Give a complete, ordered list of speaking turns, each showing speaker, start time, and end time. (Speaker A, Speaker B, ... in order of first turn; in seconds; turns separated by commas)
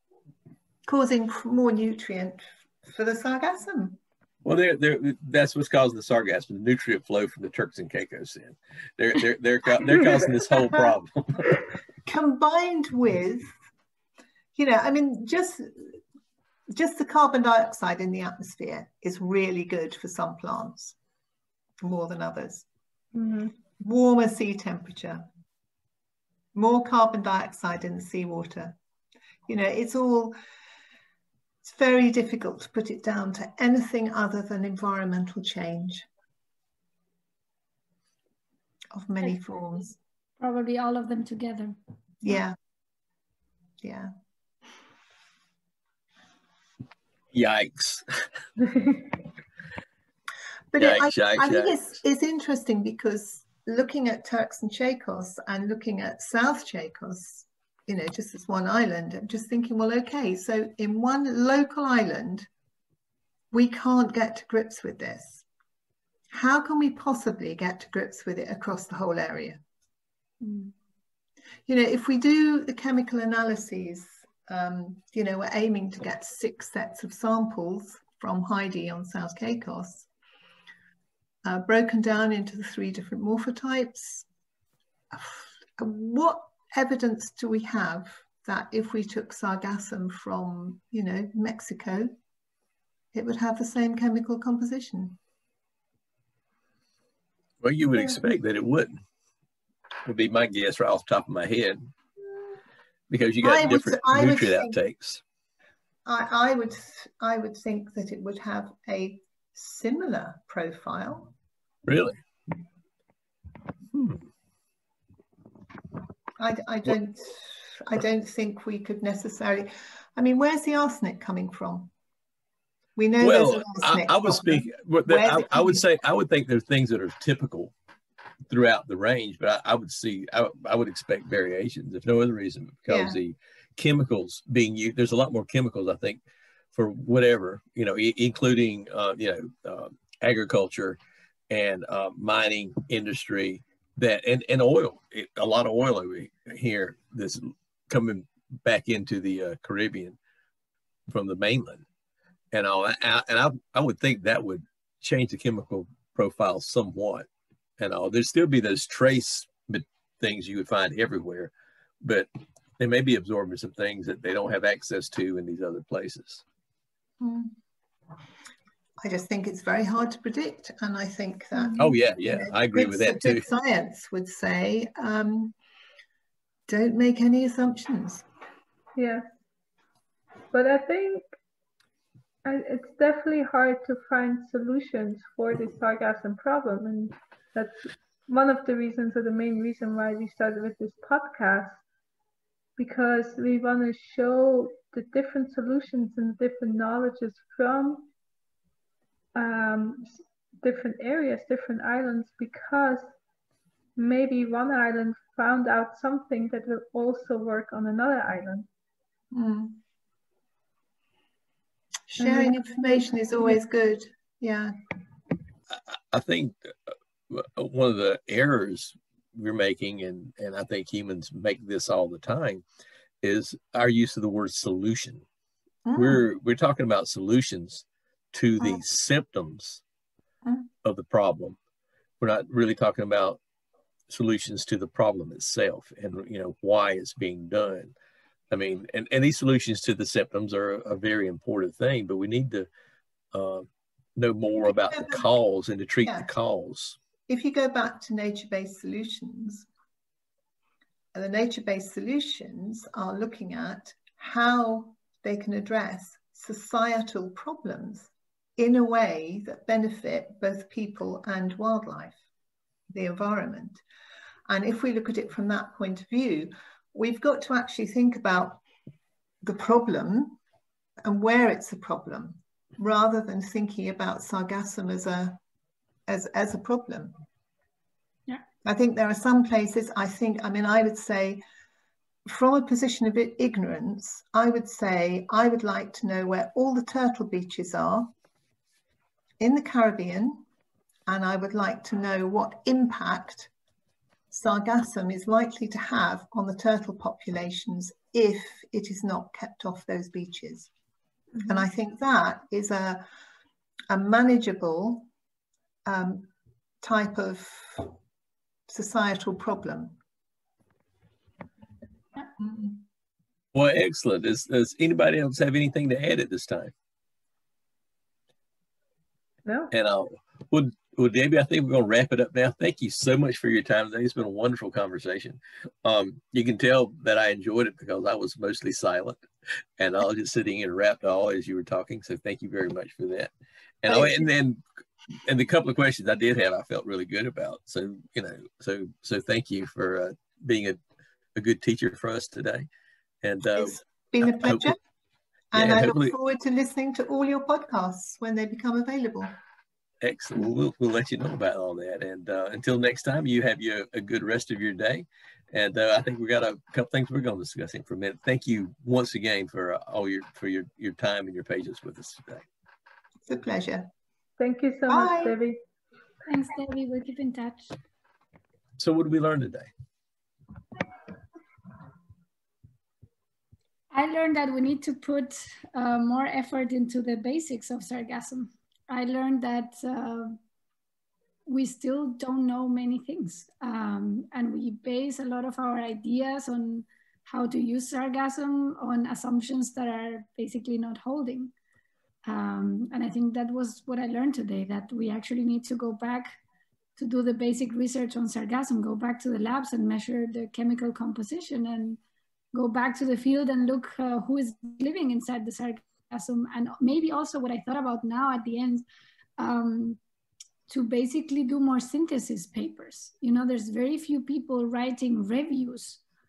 Speaker A: 0.9-4.0, Speaker B: 4.4-11.6, Speaker A: 12.1-13.5, Speaker A: 14.6-16.0, Speaker A: 16.7-21.0, Speaker A: 21.8-22.7, Speaker C: 23.1-23.6, Speaker A: 23.8-25.3, Speaker A: 26.6-28.8, Speaker A: 29.5-30.4, Speaker A: 31.6-36.1, Speaker A: 38.9-40.0, Speaker D: 40.4-41.8, Speaker A: 42.2-42.6, Speaker A: 43.8-44.1, Speaker B: 47.3-48.1, Speaker A: 50.7-62.5, Speaker B: 50.8-51.7, Speaker A: 63.5-65.5, Speaker A: 66.3-69.6, Speaker A: 71.7-80.1, Speaker A: 81.5-84.3, Speaker A: 85.1-92.1, Speaker A: 93.1-95.2, Speaker B: 97.6-99.0, Speaker B: 100.0-101.9, Speaker B: 103.1-105.2, Speaker A: 103.4-104.8, Speaker A: 106.1-111.3, Speaker B: 111.9-112.2, Speaker B: 113.9-114.2, Speaker A: 116.4-121.9, Speaker A: 123.0-125.8, Speaker B: 123.2-127.7, Speaker B: 128.5-136.2, Speaker A: 132.9-133.2, Speaker B: 136.7-141.0, Speaker B: 141.5-150.2, Speaker B: 151.1-151.8, Speaker B: 152.5-157.3, Speaker B: 157.8-161.5, Speaker B: 162.0-162.3, Speaker B: 162.8-166.4, Speaker A: 167.2-167.6, Speaker A: 169.0-175.6, Speaker B: 171.8-173.4, Speaker A: 176.7-178.3, Speaker C: 179.0-179.3, Speaker C: 180.5-181.2, Speaker C: 182.4-191.8, Speaker C: 192.8-198.1, Speaker C: 199.3-203.1, Speaker C: 204.0-208.7, Speaker A: 209.3-209.8, Speaker A: 212.1-214.8, Speaker C: 212.2-212.6, Speaker B: 215.7-222.6, Speaker B: 223.2-225.2, Speaker A: 225.9-226.2, Speaker B: 225.9-229.8, Speaker B: 230.8-231.6, Speaker B: 232.2-233.4, Speaker B: 234.1-237.9, Speaker B: 238.5-242.7, Speaker B: 243.3-247.0, Speaker A: 244.6-245.2, Speaker A: 247.3-249.7, Speaker A: 251.1-262.2, Speaker A: 262.9-263.8, Speaker A: 264.5-268.6, Speaker A: 269.4-270.4, Speaker A: 271.0-275.4, Speaker A: 276.1-277.1, Speaker A: 278.6-281.4, Speaker A: 282.3-288.1, Speaker A: 289.4-290.4, Speaker A: 291.1-293.5, Speaker A: 294.3-300.7, Speaker A: 301.4-303.0, Speaker A: 303.9-305.1, Speaker A: 305.9-306.3, Speaker A: 306.8-307.9, Speaker A: 308.7-309.9, Speaker A: 312.4-312.8, Speaker B: 313.5-316.7, Speaker C: 319.5-319.7, Speaker B: 319.7-329.2, Speaker B: 329.8-333.3, Speaker B: 333.8-334.6, Speaker A: 333.9-334.3, Speaker B: 335.2-340.8, Speaker B: 341.4-342.7, Speaker B: 343.2-344.8, Speaker A: 343.5-344.8, Speaker A: 345.5-349.4, Speaker B: 345.5-346.1, Speaker B: 350.0-362.4, Speaker A: 363.3-363.9, Speaker C: 364.4-365.6, Speaker A: 364.9-365.4, Speaker D: 366.2-367.8, Speaker B: 368.8-369.7, Speaker D: 373.9-380.4, Speaker D: 381.5-391.5, Speaker D: 392.3-396.3, Speaker D: 397.0-402.0, Speaker D: 402.5-408.9, Speaker D: 409.4-410.0, Speaker D: 410.7-416.0